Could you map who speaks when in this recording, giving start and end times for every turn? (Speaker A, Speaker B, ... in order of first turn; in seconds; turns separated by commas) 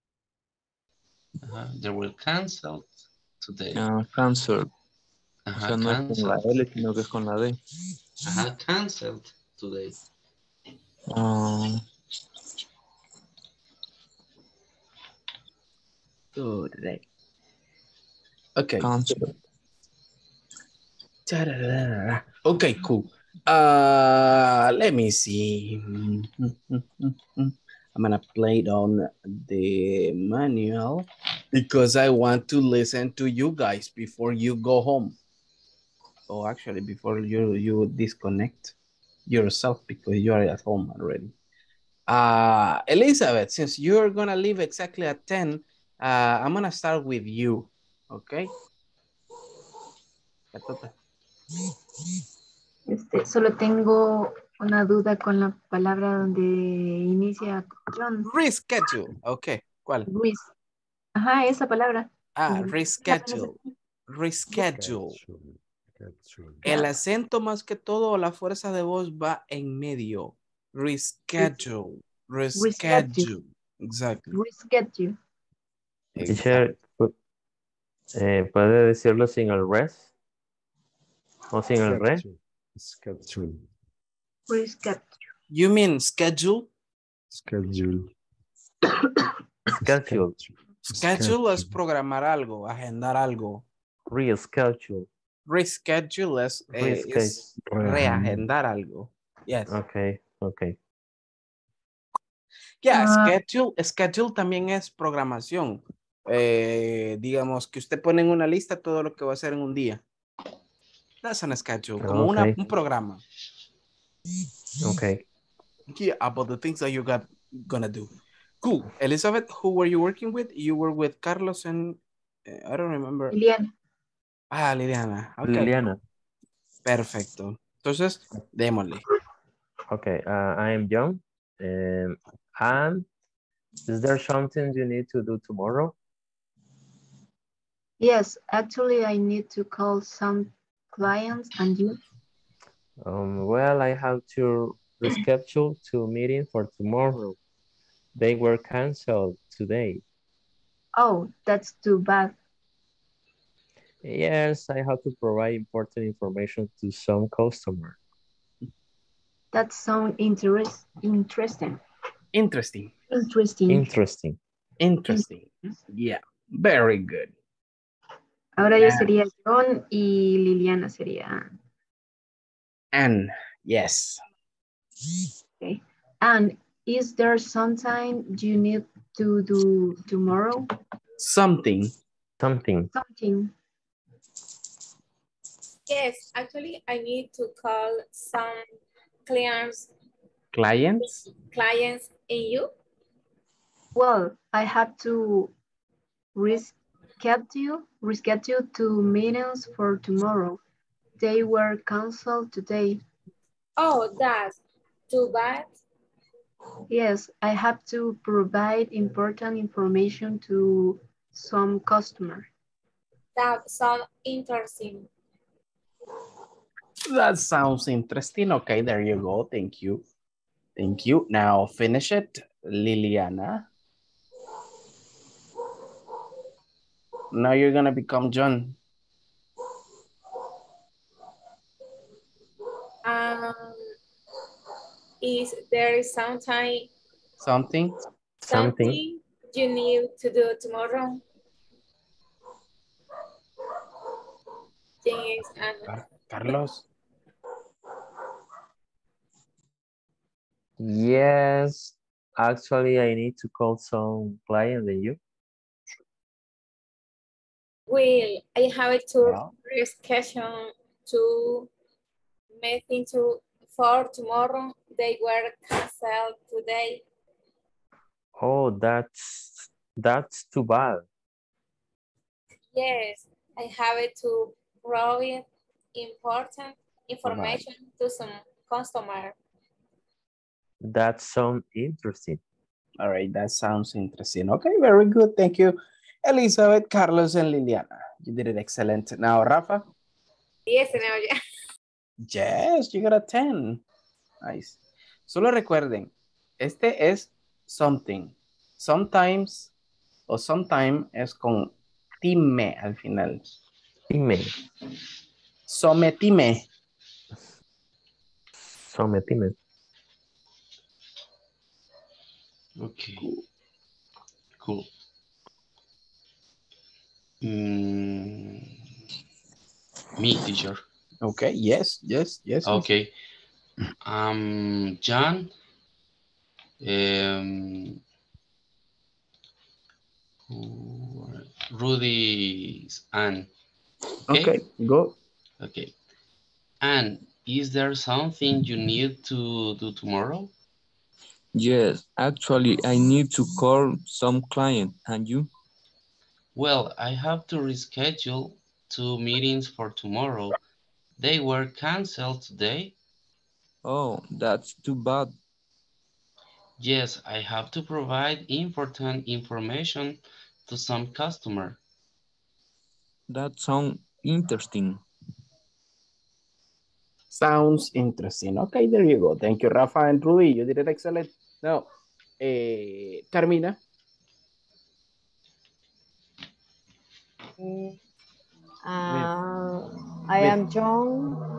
Speaker A: 1.4-3.8, Speaker B: 3.7-4.7, Speaker A: 5.5-6.4, Speaker B: 5.5-7.6, Speaker A: 8.2-10.0, Speaker B: 11.1-11.8, Speaker C: 16.4-17.1, Speaker C: 18.6-18.9, Speaker B: 18.8-19.4, Speaker C: 21.3-35.2, Speaker C: 36.3-38.8, Speaker C: 39.3-41.3, Speaker C: 42.1-48.5, Speaker C: 50.5-50.9, Speaker D: 52.9-58.3, Speaker C: 58.3-60.1, Speaker D: 60.1-60.5, Speaker D: 61.1-63.6, Speaker C: 62.4-63.6, Speaker C: 64.1-65.2, Speaker E: 64.6-66.8, Speaker C: 66.6-74.4, Speaker D: 72.5-73.3, Speaker D: 74.3-75.2, Speaker C: 76.2-76.7, Speaker F: 76.2-77.1, Speaker F: 78.1-80.1, Speaker F: 81.5-82.2, Speaker E: 81.8-83.7, Speaker D: 84.5-85.2, Speaker C: 85.5-86.7, Speaker E: 87.3-88.1, Speaker F: 89.7-90.4, Speaker E: 89.9-91.8, Speaker C: 90.9-93.7, Speaker F: 94.1-95.1, Speaker C: 95.5-99.7, Speaker F: 96.8-98.0, Speaker E: 98.0-98.4, Speaker F: 99.7-100.8, Speaker C: 102.8-110.0, Speaker C: 111.2-113.2, Speaker F: 112.0-112.6, Speaker F: 114.8-115.2, Speaker C: 115.9-118.1, Speaker C: 118.6-123.4, Speaker D: 123.3-123.7, Speaker C: 124.5-125.8, Speaker F: 125.4-126.0, Speaker C: 126.8-129.0, Speaker F: 129.9-133.1, Speaker F: 133.9-135.9, Speaker D: 138.0-142.0, Speaker F: 143.0-147.4, Speaker F: 148.2-150.0, Speaker D: 151.0-152.3, Speaker F: 154.0-158.0, Speaker D: 159.5-161.8, Speaker C: 162.3-162.9, Speaker D: 163.1-163.9, Speaker F: 163.7-164.4, Speaker C: 164.8-167.3, Speaker D: 168.6-171.6, Speaker C: 168.7-169.1, Speaker C: 172.9-174.2, Speaker D: 175.6-180.7, Speaker C: 181.2-181.9, Speaker F: 182.4-182.9, Speaker D: 182.9-183.5, Speaker G: 185.9-188.7, Speaker G: 189.3-189.9, Speaker C: 190.5-191.2, Speaker G: 191.1-192.7, Speaker D: 193.9-195.5, Speaker D: 196.3-200.6, Speaker D: 201.2-203.0, Speaker G: 203.8-205.7, Speaker D: 206.9-212.5, Speaker G: 213.4-215.1, Speaker C: 217.1-220.1, Speaker C: 220.8-223.7, Speaker C: 227.3-228.8, Speaker G: 233.1-233.8, Speaker G: 235.2-236.9, Speaker C: 237.4-238.0, Speaker F: 238.4-239.0, Speaker G: 238.5-241.2, Speaker G: 245.0-246.6, Speaker C: 245.9-246.9, Speaker F: 250.8-255.2, Speaker G: 257.9-261.7, Speaker G: 262.6-267.0, Speaker F: 268.4-271.1, Speaker G: 272.7-279.4, Speaker F: 277.2-277.6, Speaker F: 280.8-282.4, Speaker C: 283.0-289.9, Speaker G: 290.7-291.3, Speaker C: 292.3-293.8, Speaker C: 294.4-299.7, Speaker C: 300.3-303.4, Speaker F: 304.1-304.5, Speaker C: 305.7-306.7, Speaker F: 308.8-309.5, Speaker A: 312.8-313.3, Speaker A: 314.6-314.9, Speaker A: 317.4-318.7, Speaker A: 320.2-320.8, Speaker C: 321.2-322.9, Speaker A: 322.6-323.1, Speaker A: 324.0-325.5, Speaker A: 326.8-328.0, Speaker A: 330.5-333.5, Speaker C: 334.3-335.2, Speaker A: 334.3-334.6, Speaker A: 335.6-335.9, Speaker A: 336.8-340.5, Speaker B: 341.6-345.5, Speaker A: 346.6-350.6, Speaker A: 351.2-352.9, Speaker B: 353.9-355.3, Speaker A: 356.8-361.8, Speaker B: 363.3-365.0, Speaker C: 367.3-371.9, Speaker C: 372.4-373.8, Speaker H: 377.6-378.0, Speaker H: 378.8-381.4